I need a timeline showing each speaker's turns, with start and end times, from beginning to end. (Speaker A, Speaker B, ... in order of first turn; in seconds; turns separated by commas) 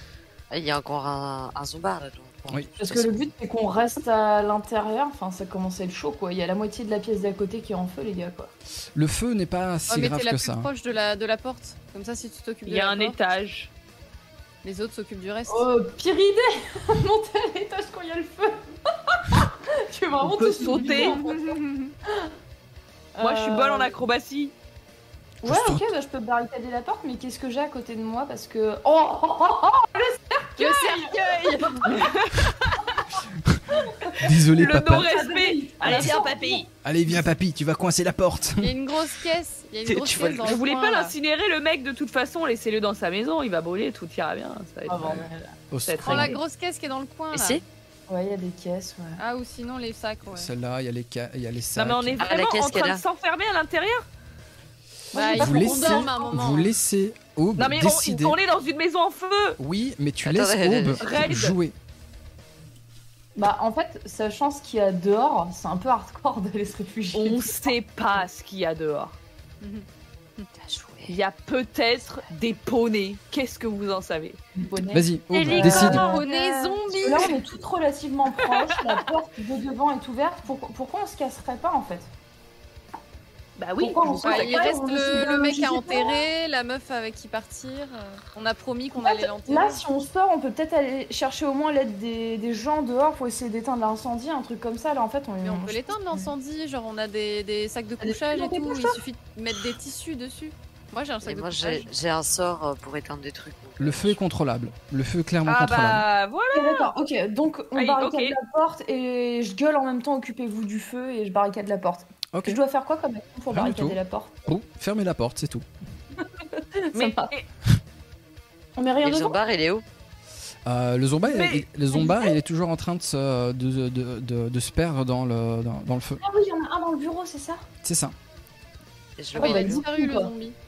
Speaker A: 0.5-3.1, Speaker B: 2.8-8.5, Speaker C: 8.9-10.7, Speaker D: 9.9-13.2, Speaker E: 12.7-13.7, Speaker D: 14.6-15.7, Speaker B: 15.5-21.5, Speaker E: 20.2-21.6, Speaker D: 20.8-21.9, Speaker B: 23.1-23.9, Speaker E: 23.2-24.5, Speaker B: 25.4-32.1, Speaker C: 25.4-25.9, Speaker D: 30.6-32.0, Speaker E: 31.8-32.9, Speaker C: 33.2-33.6, Speaker B: 33.7-36.6, Speaker E: 34.1-36.7, Speaker C: 34.2-35.1, Speaker C: 35.9-36.1, Speaker C: 36.8-38.8, Speaker D: 38.6-41.1, Speaker E: 39.8-45.3, Speaker B: 44.9-45.6, Speaker C: 45.7-46.3, Speaker E: 45.9-46.4, Speaker D: 46.0-47.6, Speaker A: 47.3-47.6, Speaker B: 48.1-49.2, Speaker D: 49.2-50.5, Speaker C: 50.3-52.2, Speaker E: 51.7-54.0, Speaker A: 52.2-53.0, Speaker B: 55.1-56.4, Speaker D: 55.1-56.7, Speaker C: 55.4-58.4, Speaker E: 57.6-59.6, Speaker C: 59.6-61.8, Speaker A: 60.2-61.0, Speaker E: 61.0-61.5, Speaker B: 63.3-67.7, Speaker E: 67.1-69.2, Speaker D: 69.6-69.8, Speaker A: 70.6-71.2, Speaker E: 71.1-74.4, Speaker B: 74.5-82.1, Speaker C: 74.9-76.2, Speaker E: 75.3-76.2, Speaker D: 75.3-77.3, Speaker E: 78.4-79.0, Speaker E: 83.6-84.7, Speaker B: 83.8-86.2, Speaker D: 84.2-89.8, Speaker B: 89.0-96.3, Speaker D: 95.4-101.9, Speaker B: 98.0-99.0, Speaker A: 101.2-104.2, Speaker C: 103.8-106.0, Speaker E: 105.4-106.9, Speaker B: 106.5-114.4, Speaker E: 107.7-108.4, Speaker C: 112.3-112.6, Speaker C: 113.5-115.7, Speaker B: 116.2-117.3, Speaker E: 116.9-117.5, Speaker B: 118.8-119.4, Speaker A: 119.0-119.8, Speaker C: 120.6-126.2, Speaker E: 121.2-121.7, Speaker B: 121.9-122.2, Speaker B: 126.2-127.6, Speaker C: 127.8-128.2, Speaker A: 129.2-129.8, Speaker D: 129.3-130.6, Speaker B: 129.3-130.3